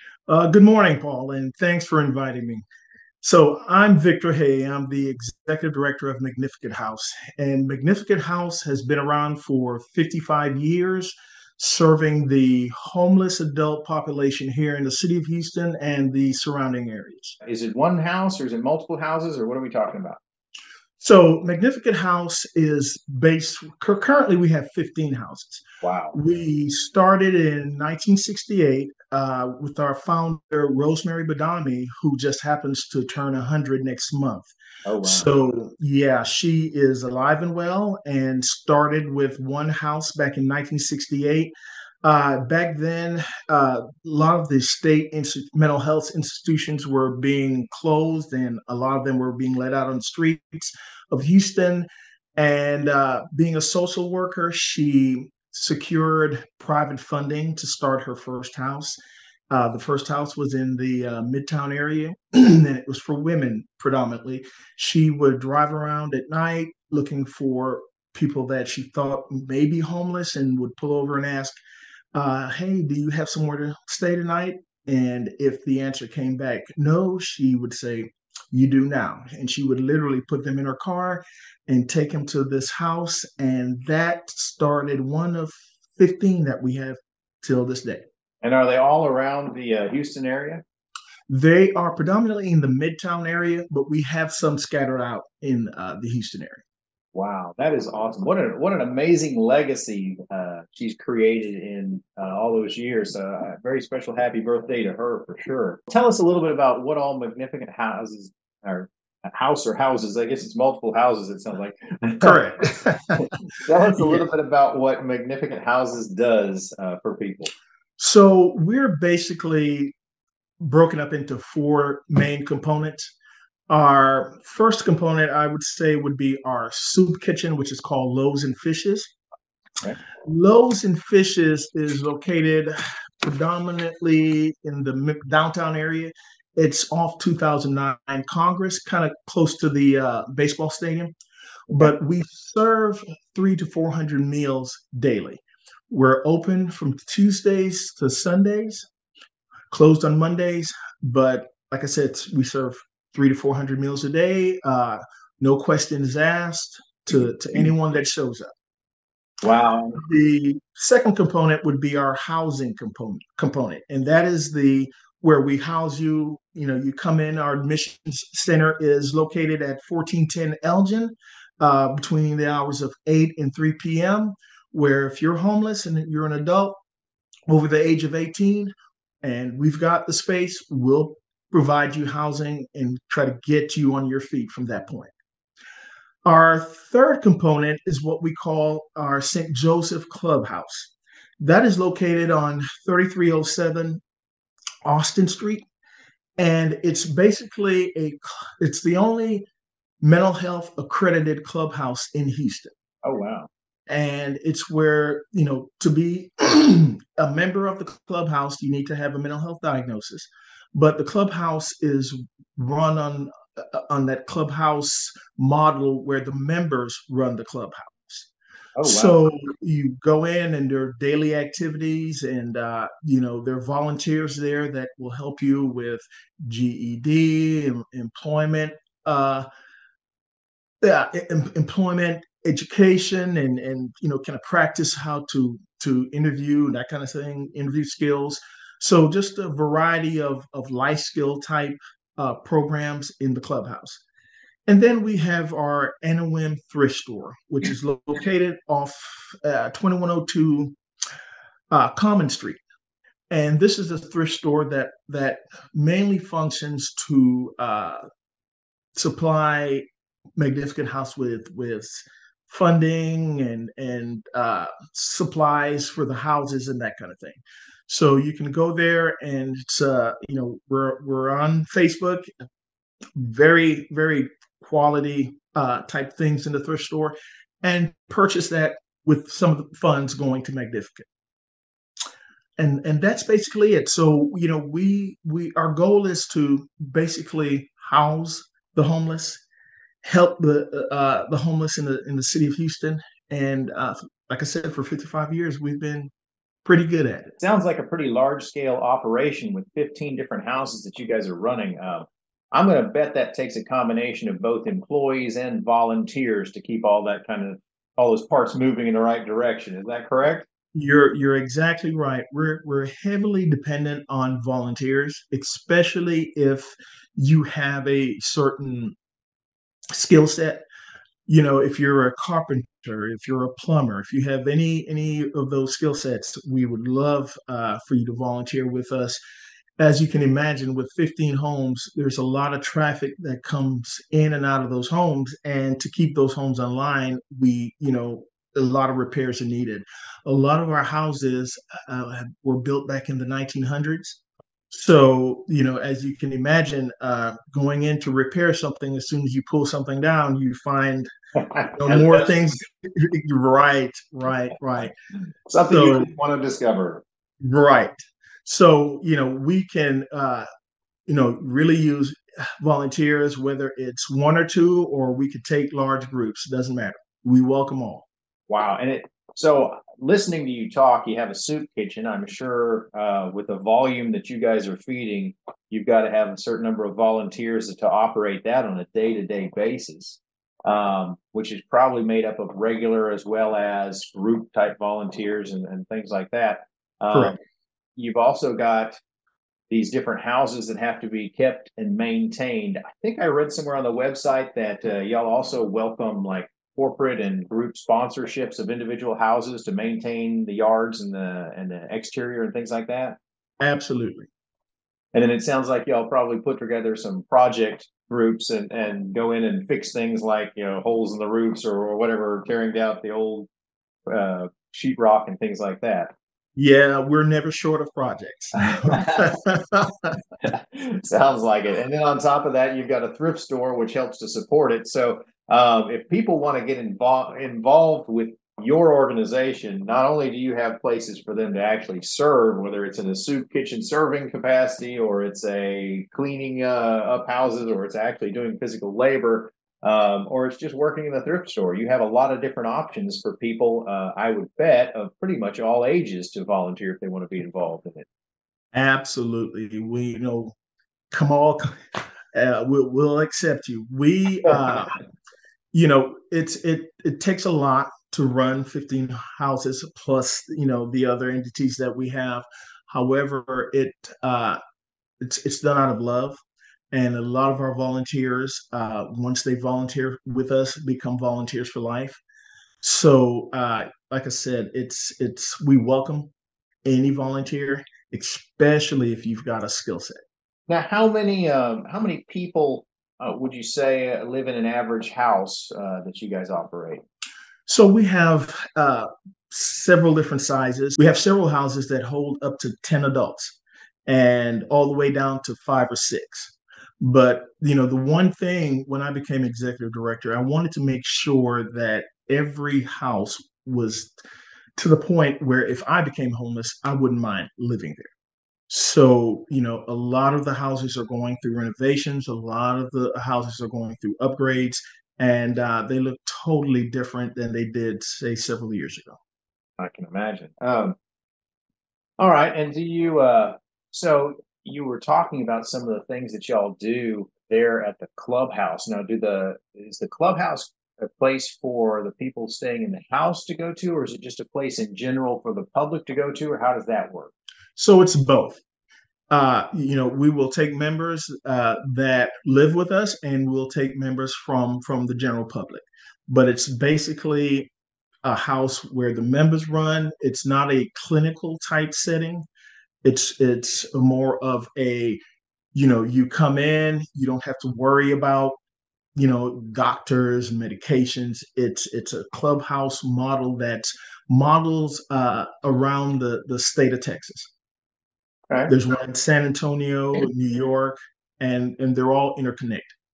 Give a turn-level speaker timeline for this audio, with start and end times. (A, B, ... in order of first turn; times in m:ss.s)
0:00.3-0:02.6 A
0:03.2-0:17.4 A
0:17.4-0:20.2 B
0:21.0-0:34.5 A
0:25.8-0:26.2 B
0:34.8-0:35.3 B
0:35.0-0:59.0 A
0:59.5-1:11.6 A
1:12.1-1:28.0 A
1:28.4-1:30.6 B
1:31.3-1:36.6 A
1:37.1-1:52.4 B
1:52.2-1:53.2 A
1:53.2-1:57.5 B
1:54.0-1:54.3 A
1:58.0-1:59.9 A
2:00.6-2:03.1 A
2:03.7-2:09.1 A
2:10.2-2:21.1 A
2:21.7-2:22.0 B
2:21.7-2:28.9 A
2:29.7-2:38.5 A
2:39.4-2:40.0 B
2:40.0-2:56.8 A
2:57.5-3:05.1 A
3:06.2-3:14.0 A
3:14.8-3:15.7 A
3:16.4-3:19.5 A
3:20.0-3:22.7 A
3:23.0-3:23.5 B
3:23.9-3:38.3 A
3:38.8-3:39.2 B
3:38.8-3:49.5 A
3:50.8-4:04.0 A
4:04.7-4:10.8 A
4:11.7-4:12.6 A
4:13.3-4:18.0 A
4:19.0-4:19.8 A
4:20.4-4:32.3 A
4:33.2-4:41.1 A
4:42.6-4:49.4 A
4:50.0-4:56.1 A
4:56.6-4:57.4 A
4:57.4-5:10.5 B
5:10.8-5:19.0 A
5:19.9-5:20.6 A
5:21.3-5:29.2 A
5:29.8-5:44.2 A
5:44.7-5:51.1 A
5:51.4-5:52.5 B
5:51.7-5:54.9 A
5:55.5-5:57.0 B
5:55.7-5:56.1 A
5:57.4-6:00.5 A
6:01.1-6:08.1 A
6:08.5-6:27.4 B
6:28.0-6:29.0 B
6:29.7-6:43.2 B
6:43.6-6:44.3 A
6:45.1-6:53.5 B
6:54.1-6:56.1 B
6:56.6-7:00.1 A
6:58.9-6:59.3 B
7:00.4-7:28.1 B
7:28.7-7:30.6 A
7:31.1-7:31.7 A
7:32.3-7:35.0 A
7:35.7-7:44.6 A
7:45.2-7:46.4 A
7:46.9-7:52.2 A
7:52.8-7:56.3 A
7:56.8-8:00.2 A
8:00.7-8:07.0 B
8:07.7-8:24.1 A
8:24.8-8:28.1 A
8:28.7-8:39.2 A
8:39.8-8:41.0 B
8:42.2-8:57.3 B
8:57.8-8:58.6 A
8:59.3-9:07.7 A
9:08.2-9:12.4 A
9:13.0-9:15.2 A
9:15.7-9:18.6 A
9:19.2-9:27.5 A
9:28.7-9:32.9 A